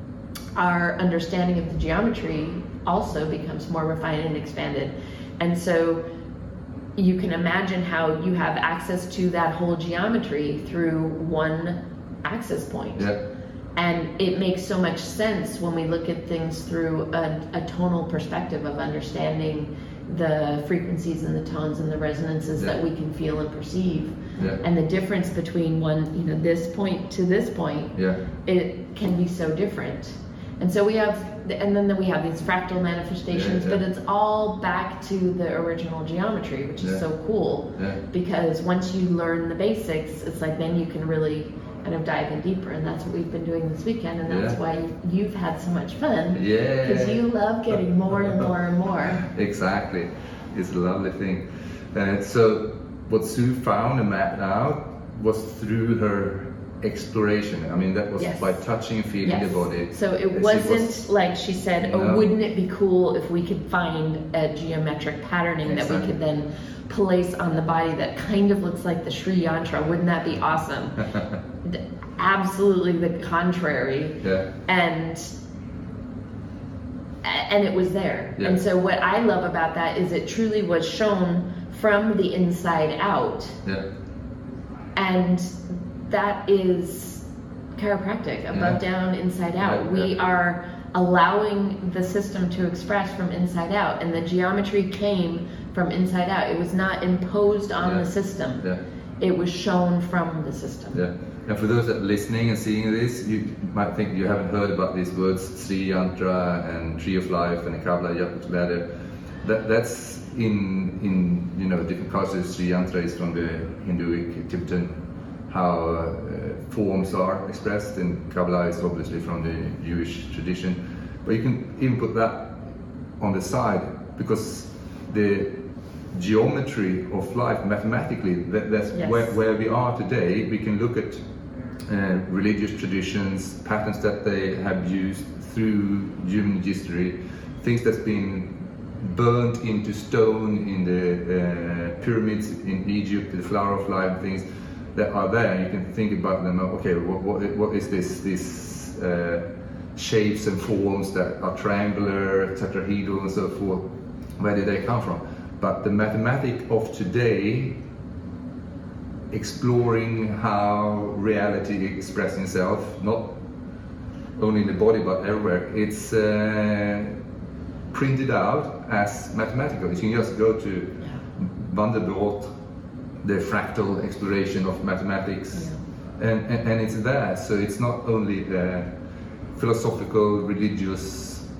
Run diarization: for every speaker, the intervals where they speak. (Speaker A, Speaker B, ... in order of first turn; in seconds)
Speaker A: 0.5-6.0, 7.0-13.1, 13.8-49.2, 58.2-58.5, 59.2-71.1, 71.6-75.3, 77.2-83.6, 85.0-87.2, 87.8-98.7, 99.2-101.0, 128.9-129.3, 175.5-175.8
Speaker B: 33.3-33.8, 44.3-44.5, 46.3-47.2, 49.2-61.0, 61.8-62.3, 65.6-66.1, 71.0-71.4, 74.2-74.5, 88.5-88.8, 89.6-90.1, 97.8-98.0, 100.9-108.8, 109.4-114.9, 115.5-122.6, 123.2-125.6, 126.1-131.2, 131.9-144.4, 144.9-153.9, 154.4-157.8, 159.3-163.4, 164.4-167.1, 167.9-172.5, 173.2-178.9, 179.5-181.5